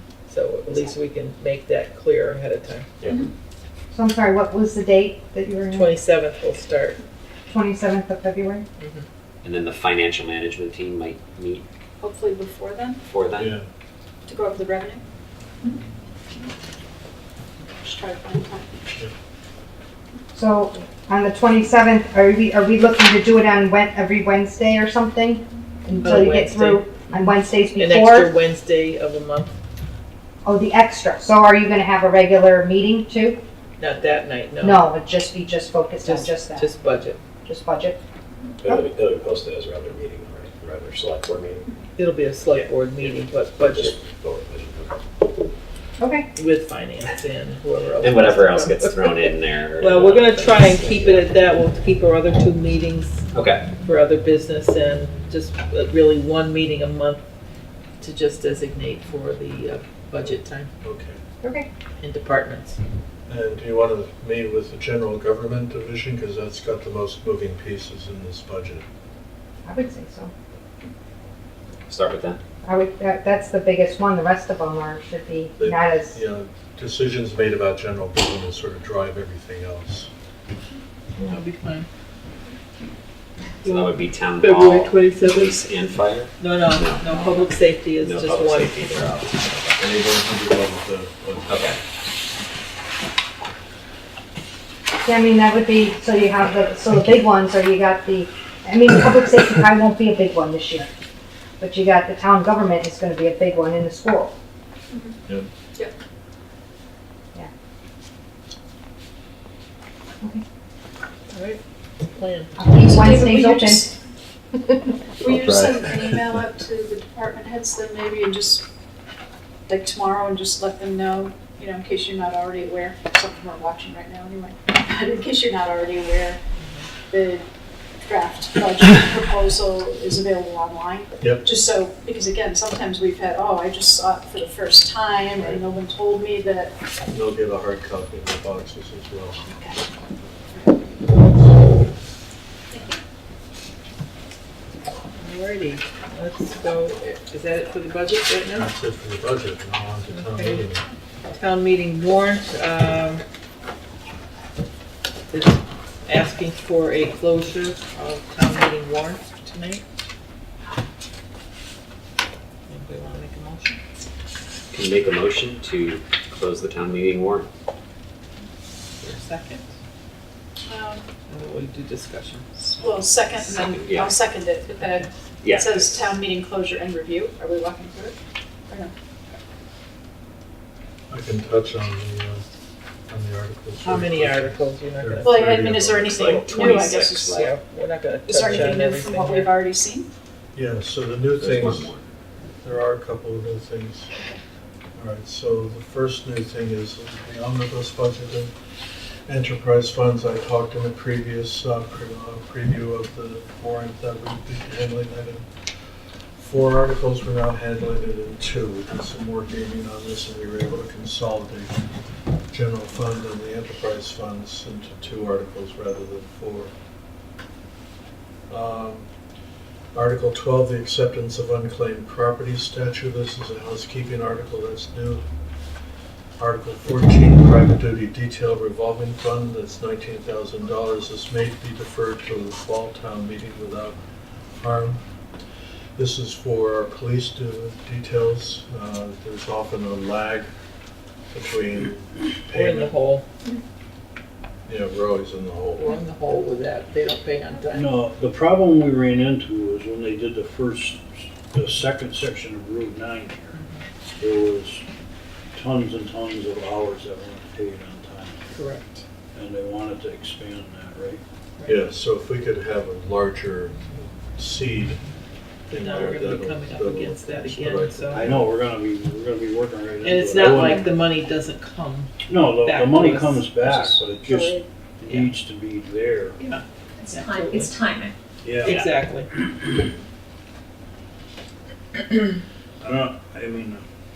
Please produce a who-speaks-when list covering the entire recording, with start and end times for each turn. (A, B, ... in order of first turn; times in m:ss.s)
0:00.3-0:02.9 A
0:03.9-0:05.9 B
0:05.7-0:07.0 A
0:07.5-0:08.6 B
0:08.8-0:09.1 A
0:09.4-0:11.6 C
0:12.0-0:13.0 D
0:13.1-0:13.5 C
0:13.4-0:13.6 E
0:14.2-0:15.0 D
0:17.8-0:18.7 D
0:20.3-0:28.3 B
0:26.0-0:29.6 A
0:30.4-0:33.4 B
0:33.8-0:34.9 A
0:34.6-0:36.7 B
0:36.0-0:37.2 A
0:37.4-0:38.0 B
0:38.8-0:41.6 F
0:42.0-0:43.9 A
0:43.7-0:44.9 F
0:46.0-0:46.3 B
0:46.3-0:53.2 A
0:48.0-0:51.3 C
0:53.3-0:53.6 C
0:53.8-0:57.2 A
0:58.0-1:00.7 A
1:00.8-1:01.2 E
1:01.4-1:01.7 B
1:02.0-1:02.8 A
1:03.3-1:08.8 E
1:09.6-1:10.3 B
1:11.9-1:12.4 C
1:12.6-1:16.2 B
1:15.6-1:20.1 E
1:21.3-1:21.9 A
1:23.6-1:27.4 C
1:23.6-1:25.6 A
1:26.4-1:29.8 A
1:28.0-1:29.4 C
1:29.8-1:31.7 E
1:31.5-1:31.8 C
1:35.0-1:40.9 B
1:41.6-1:44.3 B
1:44.9-1:45.2 D
1:51.3-1:51.6 A
1:52.1-1:52.6 A
1:52.6-1:53.9 B
1:52.8-1:53.9 D
1:54.6-1:54.9 B
1:55.2-1:58.6 D
1:59.7-2:06.4 D
2:06.6-2:06.9 A
2:07.1-2:07.5 D
2:08.0-2:16.7 D
2:15.3-2:15.6 E
2:17.1-2:19.4 E
2:25.2-2:28.7 A
2:28.5-2:30.8 E
2:30.1-2:30.6 A
2:31.3-2:33.2 A
2:35.3-2:39.8 A
2:42.7-2:43.8 A
2:44.7-2:47.5 C
2:49.0-2:49.7 A
2:50.7-2:51.0 D
2:51.3-2:53.1 A
2:52.6-2:58.2 D
2:53.4-2:54.2 C
2:54.7-2:55.1 A
2:55.4-2:56.1 C
2:58.7-2:59.4 D
3:01.1-3:02.4 E
3:03.1-3:06.6 E
3:03.8-3:05.4 A
3:05.2-3:07.4 D
3:06.1-3:07.5 C
3:07.1-3:09.5 A
3:08.2-3:10.1 D
3:10.5-3:11.9 E
3:11.4-3:12.0 C
3:12.6-3:14.1 E
3:15.0-3:18.5 E
3:19.3-3:25.5 E
3:26.4-3:31.8 E
3:32.5-3:36.7 E
3:38.5-3:39.1 E
3:39.9-3:45.2 E
3:46.4-3:54.0 E
3:54.6-3:55.0 E
3:56.0-4:00.5 E
4:01.3-4:02.9 E
4:02.5-4:03.2 A
4:04.7-4:05.9 E
4:05.8-4:07.9 A
4:07.8-4:13.6 G
4:13.5-4:13.8 A
4:14.2-4:14.8 G
4:15.5-4:18.4 G
4:18.5-4:19.0 A
4:19.3-4:21.2 G
4:21.7-4:25.0 E
4:25.7-4:28.3 A
4:25.7-4:28.5 E
4:28.1-4:30.9 G
4:30.0-4:34.0 A
4:32.3-4:36.4 G
4:34.2-4:34.5 B
4:36.4-4:37.7 A
4:38.4-4:38.8 G
4:38.6-4:39.3 A
4:42.8-4:43.8 G